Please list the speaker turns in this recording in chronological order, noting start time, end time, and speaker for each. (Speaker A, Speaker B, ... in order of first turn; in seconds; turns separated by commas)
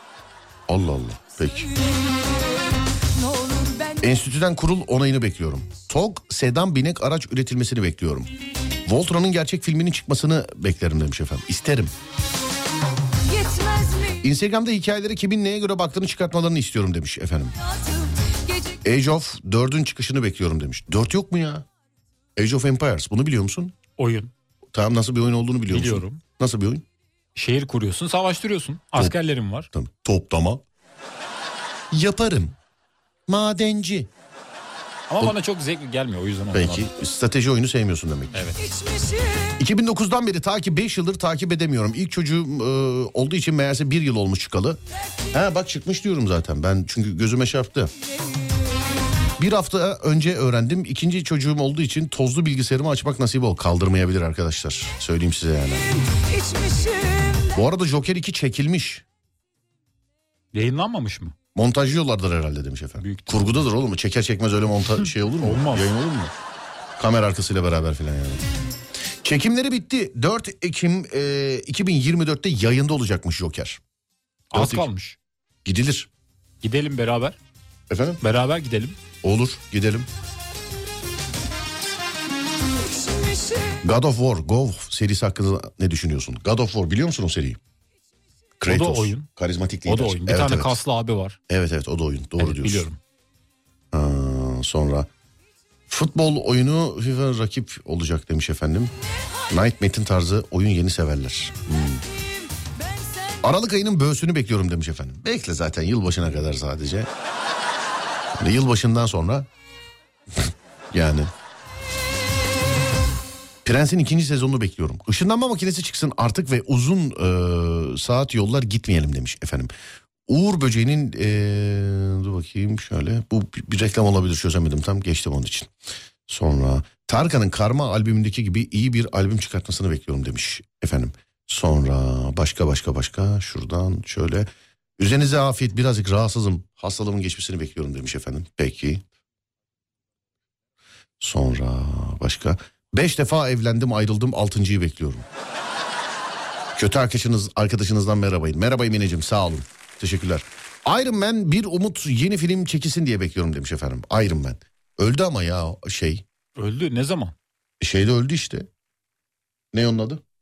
Speaker A: 0.7-1.7, Speaker B: 1.8-4.1, Speaker A: 4.0-8.3, Speaker A: 8.9-11.9, Speaker B: 13.3-14.2, Speaker A: 14.2-17.6, Speaker B: 17.6-18.8, Speaker A: 18.8-21.7, Speaker A: 22.4-23.8, Speaker C: 24.0-24.3, Speaker A: 24.7-26.8, Speaker C: 25.7-26.2, Speaker C: 27.4-29.7, Speaker A: 29.7-30.6, Speaker A: 31.9-32.6, Speaker A: 33.3-34.1, Speaker C: 35.1-36.9, Speaker A: 36.5-38.6, Speaker B: 38.6-39.6, Speaker A: 39.6-44.8, Speaker A: 45.3-47.9, Speaker B: 48.2-48.5, Speaker A: 49.4-55.9, Speaker B: 56.1-57.6, Speaker A: 57.5-59.0, Speaker C: 60.5-61.4, Speaker A: 61.5-66.3, Speaker C: 63.0-63.6, Speaker C: 65.4-65.9, Speaker A: 67.0-68.4, Speaker A: 69.2-73.8, Speaker C: 74.5-75.2, Speaker A: 74.5-74.9, Speaker A: 75.7-76.1, Speaker C: 76.6-77.4, Speaker A: 77.9-78.2, Speaker C: 78.2-79.0, Speaker A: 79.2-80.1, Speaker B: 82.9-83.8, Speaker A: 83.8-87.6, Speaker A: 88.6-90.7, Speaker C: 88.7-89.3, Speaker C: 89.9-91.4, Speaker A: 91.5-92.9, Speaker C: 92.4-93.0, Speaker A: 93.9-95.1, Speaker A: 95.9-98.9, Speaker A: 99.5-102.0, Speaker B: 102.6-103.4, Speaker A: 103.4-107.1, Speaker A: 108.3-109.5, Speaker A: 110.3-111.3, Speaker A: 113.7-119.7, Speaker A: 120.3-125.7, Speaker A: 126.3-139.0, Speaker A: 141.2-145.3, Speaker A: 146.8-156.2, Speaker C: 156.6-157.3, Speaker A: 157.8-158.7, Speaker A: 159.7-160.2